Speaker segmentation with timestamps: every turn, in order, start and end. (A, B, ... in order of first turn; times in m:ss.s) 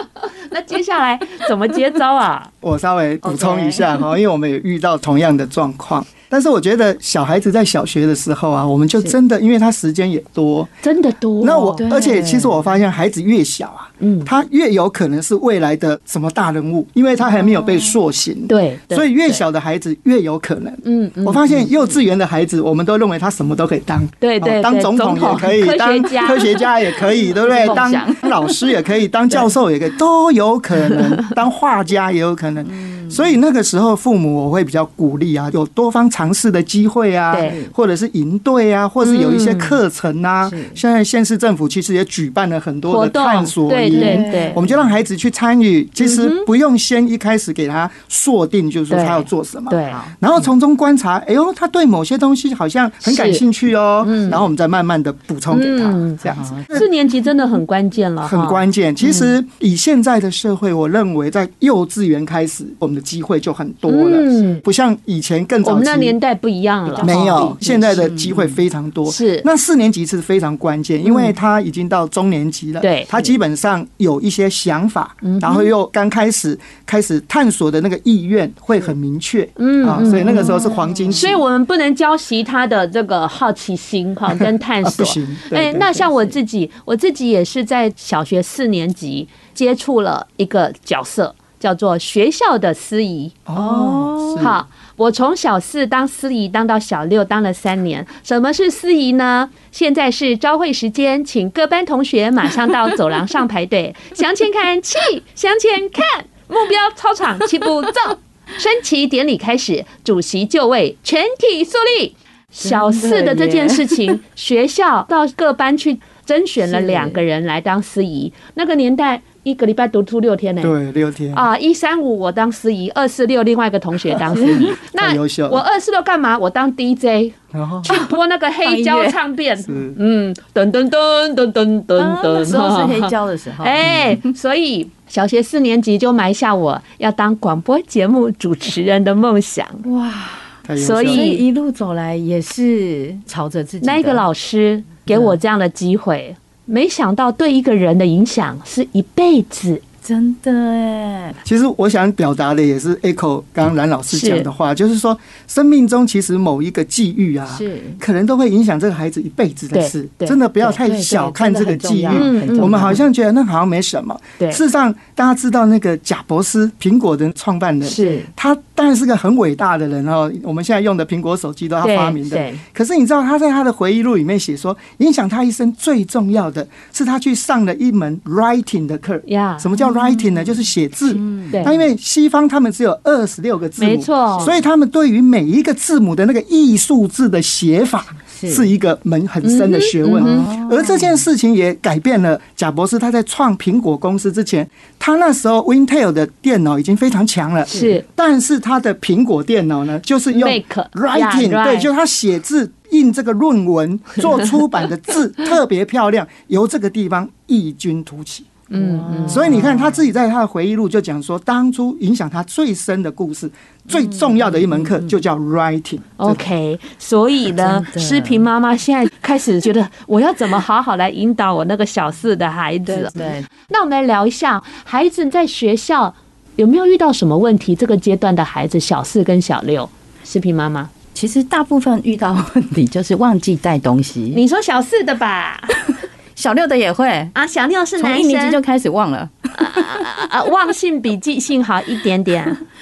0:00.5-0:02.5 A
0:02.6-0:10.7 B
0:03.2-0:03.9 C
0:10.8-0:11.8 A
0:11.4-0:56.9 B
0:11.8-0:12.7 C
0:14.0-0:14.3 A
0:17.3-0:17.9 C
0:18.5-0:19.4 A
0:20.8-0:21.5 A
0:24.2-0:28.3 A
0:27.4-0:28.3 C
0:32.6-0:33.3 C
0:37.3-0:37.6 A
0:37.4-0:37.7 C
0:39.0-0:39.8 A
0:40.4-0:40.8 C
0:42.9-0:44.6 A
0:43.9-0:44.8 C
0:46.0-0:46.5 A
0:48.9-0:50.0 A
0:49.8-0:50.1 C
0:53.0-0:53.4 A
0:54.0-0:54.4 A
0:55.5-0:58.6 A
0:56.3-0:56.8 C
0:58.2-1:06.2 B
1:03.8-1:04.6 A
1:05.6-1:07.8 A
1:07.0-1:08.6 C
1:07.0-1:21.4 B
1:09.0-1:09.5 A
1:12.8-1:13.1 A
1:15.2-1:15.7 A
1:19.6-1:20.6 A
1:20.0-1:21.2 C
1:21.2-1:33.4 A
1:24.4-1:26.0 B
1:33.4-1:34.6 B
1:33.5-1:34.6 C
1:34.4-2:00.7 A
1:52.6-1:54.1 C
1:56.6-1:57.2 C
2:00.6-2:01.4 B
2:01.3-2:19.8 A
2:04.4-2:05.6 B
2:07.5-2:07.9 B
2:07.8-2:09.2 C
2:09.6-2:10.0 B
2:12.0-2:14.2 C
2:13.8-2:14.2 B
2:19.8-2:20.5 C
2:20.6-2:21.3 B
2:20.8-2:21.4 A
2:21.0-2:24.2 C
2:23.8-2:29.8 A
2:25.1-2:25.4 C
2:30.0-2:31.4 C
2:31.4-3:28.6 B
2:34.1-2:34.5 A
2:37.5-2:38.0 C
2:39.7-2:40.4 A
2:40.6-2:43.0 C
2:42.1-2:43.0 A
2:47.8-2:48.3 A
2:51.8-2:52.6 A
2:59.2-2:59.7 A
3:01.1-3:01.7 C
3:03.8-3:04.5 A
3:08.3-3:08.7 C
3:09.4-3:10.4 A
3:10.1-3:11.2 C
3:17.7-3:18.0 C
3:17.7-3:18.0 A
3:20.3-3:21.9 A
3:28.7-3:29.5 A
3:28.7-3:30.0 C
3:29.3-3:36.4 B
3:33.9-3:35.1 C
3:36.2-3:50.9 A
3:37.5-3:38.4 C
3:42.9-3:43.5 C
3:51.1-3:54.4 C
3:54.3-3:55.8 A
3:56.4-3:57.3 C
3:57.3-3:58.6 A
3:58.0-4:00.0 C
3:59.6-4:02.6 A